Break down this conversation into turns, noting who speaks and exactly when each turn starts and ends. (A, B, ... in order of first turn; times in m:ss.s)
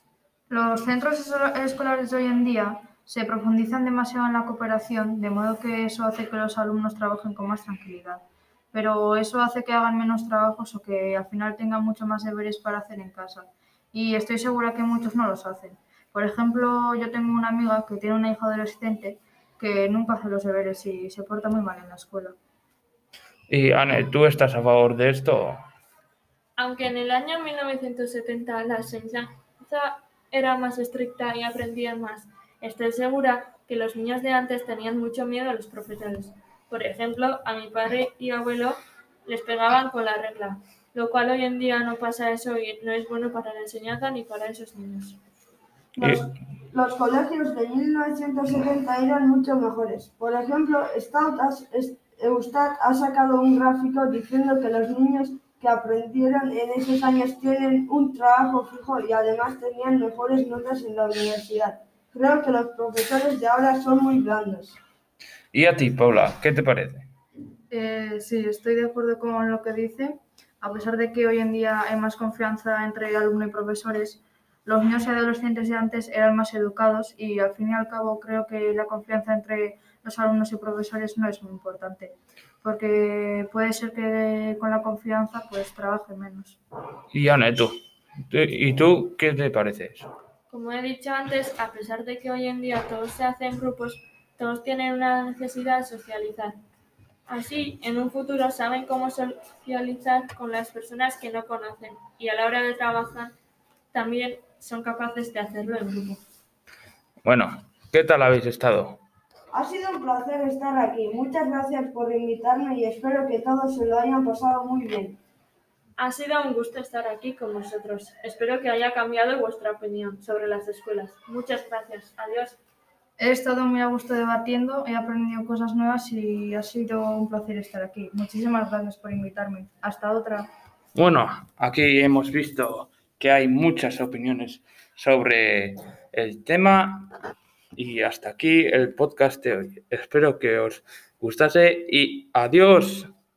0:00.5-0:22.4 A
0:23.5-0:25.6 B
0:26.6-0:45.2 C
0:46.0-1:04.8 D
1:05.5-1:07.1 B
1:07.7-1:26.6 A
1:27.1-1:27.7 B
1:28.3-1:30.1 B
1:30.5-1:36.6 C
1:37.3-1:43.3 C
1:43.9-1:46.2 C
1:47.2-1:49.0 B
1:49.5-1:55.2 D
1:56.0-2:02.6 C
2:03.2-2:10.5 A
2:10.9-2:17.1 B
2:17.7-2:23.1 B